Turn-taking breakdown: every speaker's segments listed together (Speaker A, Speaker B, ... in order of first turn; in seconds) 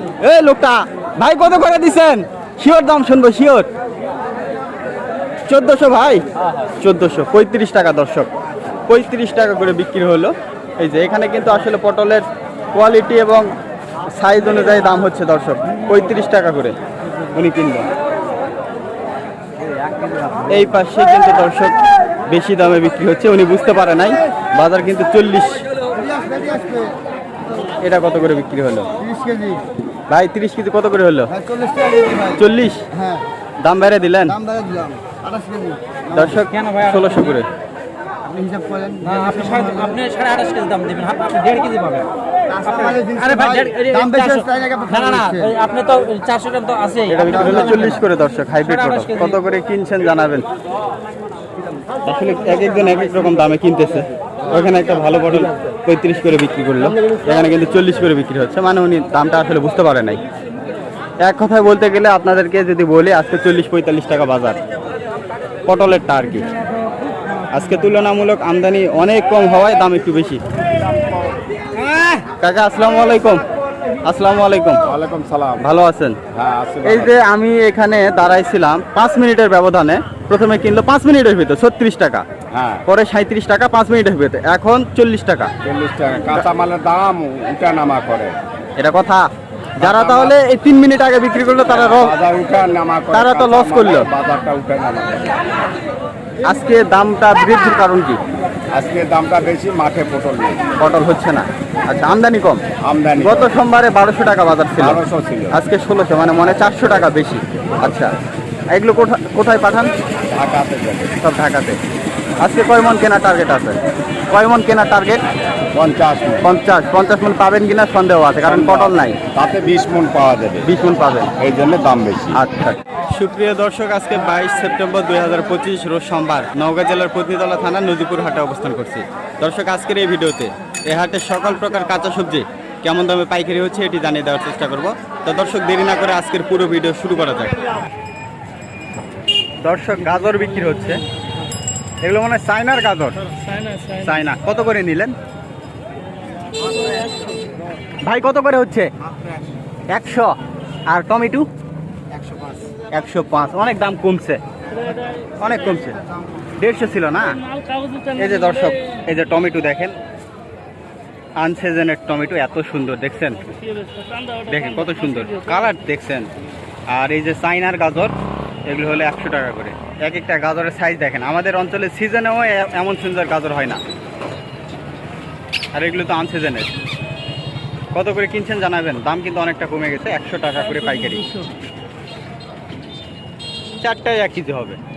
Speaker A: 0.2-3.7, 5.5-6.2, 6.8-8.3, 8.9-12.2, 12.7-13.5, 14.1-16.7, 17.3-17.9, 20.5-25.6, 27.8-28.9, 30.1-31.3, 32.2-32.9, 33.6-34.4, 36.1-37.5, 47.1-50.5, 52.0-60.2, 61.2-64.6, 65.7-66.4, 67.5-70.4, 72.4-73.4, 74.0-74.8, 75.6-76.2, 76.8-82.2, 82.9-85.5, 88.8-89.2, 89.8-92.1, 93.1-94.1, 96.4-98.2, 100.8-102.6, 103.2-108.1, 108.7-109.9, 111.2-111.8, 112.4-113.8, 114.3-115.2, 116.4-119.2, 120.6-121.3, 122.3-137.6, 139.6-141.0, 142.0-143.2, 143.8-145.1, 148.0-148.9, 149.9-150.3, 150.9-151.4, 152.9-154.4, 155.4-155.9, 156.6-157.4, 158.1-159.9, 161.4-163.5, 164.4-166.3, 166.9-168.1, 168.7-173.8, 175.7-176.7, 177.9-181.3, 183.8-184.8
Speaker B: 19.8-20.5, 36.6-37.0, 39.0-42.1, 42.6-47.6, 48.9-49.2
Speaker C: 26.1-26.9, 29.1-29.6, 34.5-34.9, 38.4-39.0
Speaker D: 74.8-75.6, 76.3-77.1, 82.5-82.8, 85.6-88.4, 89.8-90.3, 91.7-95.3, 98.7-100.6, 102.8-103.5, 104.8-105.5, 110.3-111.1, 115.7-116.4, 118.4-120.7, 121.4-122.4